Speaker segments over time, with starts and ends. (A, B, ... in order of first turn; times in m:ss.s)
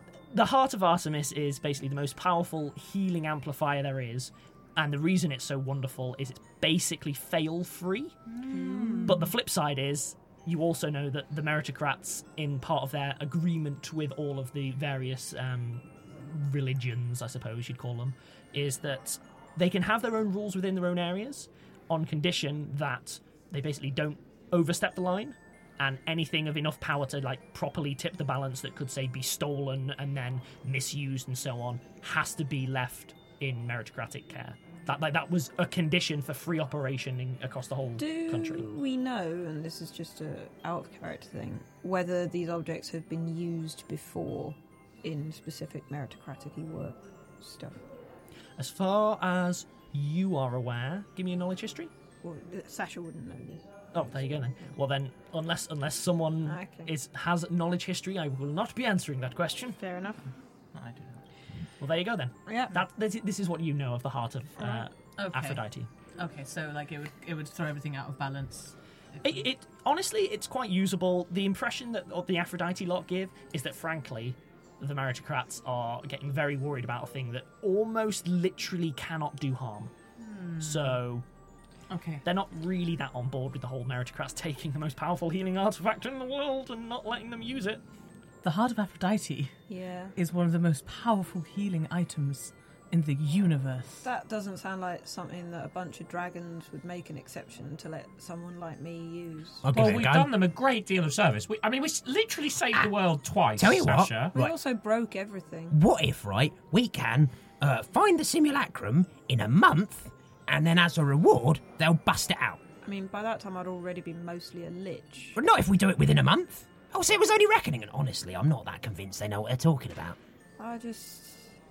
0:00.3-0:08.2 A
0:08.3-0:09.3 B
0:08.5-0:09.1 C
0:09.0-0:38.7 A
0:38.0-0:47.8 C
0:48.6-0:51.9 A
0:52.2-0:53.7 C
0:53.9-0:59.8 A
0:56.4-0:56.9 C
0:59.8-1:00.2 C
1:00.7-1:01.2 B
1:01.8-1:05.9 A
1:02.5-1:02.7 C
1:05.2-1:05.6 B
1:06.2-1:09.4 B
1:09.2-1:19.9 A
1:20.2-1:21.0 B
1:20.6-1:21.2 A
1:21.9-1:22.2 B
1:22.2-1:27.8 A
1:28.4-1:29.5 B
1:29.7-1:30.1 C
1:30.2-1:34.1 B
1:34.0-1:39.6 C
1:39.6-1:40.3 D
1:39.7-1:44.3 E
1:43.6-1:44.5 D
1:44.3-1:45.8 C
1:45.7-1:52.6 D
1:52.8-1:55.4 C
1:55.3-2:00.2 D
2:00.6-2:01.5 C